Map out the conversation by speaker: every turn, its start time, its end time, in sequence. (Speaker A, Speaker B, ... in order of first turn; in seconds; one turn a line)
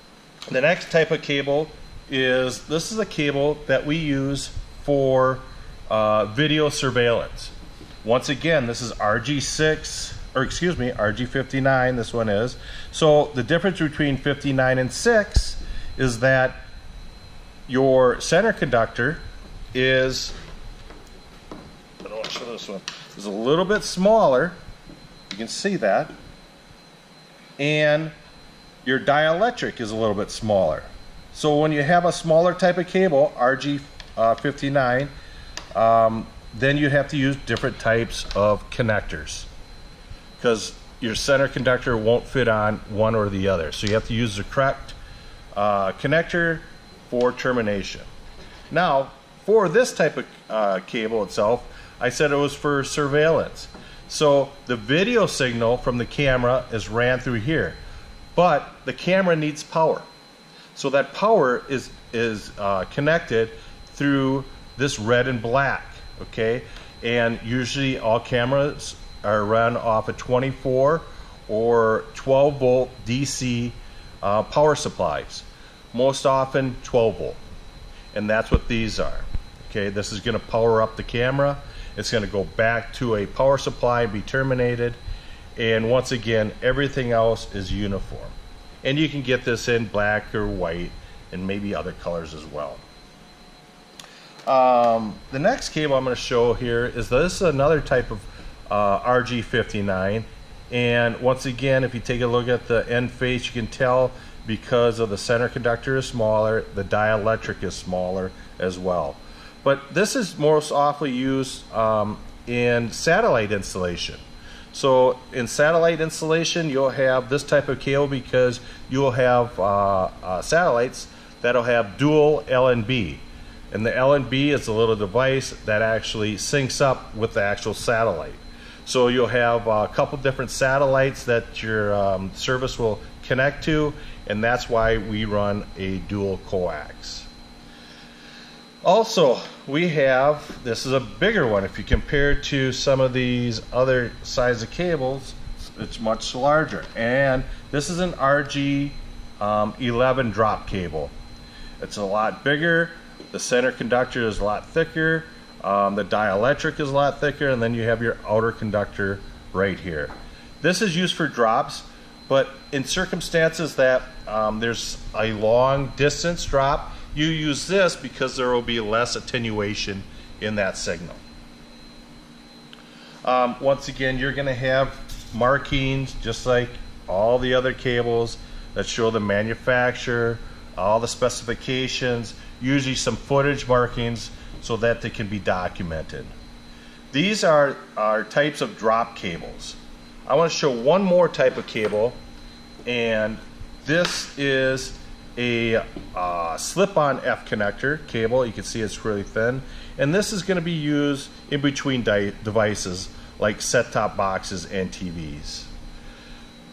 Speaker A: 0.5-16.6
Speaker A: 17.7-19.2
Speaker A: 19.7-20.4
Speaker A: 22.0-24.6
Speaker A: 25.3-26.1
Speaker A: 27.6-28.1
Speaker A: 28.8-35.1
Speaker A: 35.8-39.5
Speaker A: 40.4-45.0
Speaker A: 45.5-48.1
Speaker A: 48.7-57.8
Speaker A: 58.4-60.1
Speaker A: 60.8-77.4
Speaker A: 78.1-85.0
Speaker A: 85.6-92.8
Speaker A: 94.5-114.2
Speaker A: 114.7-137.3
Speaker A: 138.8-151.1
Speaker A: 151.8-171.2
Speaker A: 173.2-186.3
Speaker A: 187.1-192.2
Speaker A: 192.9-205.7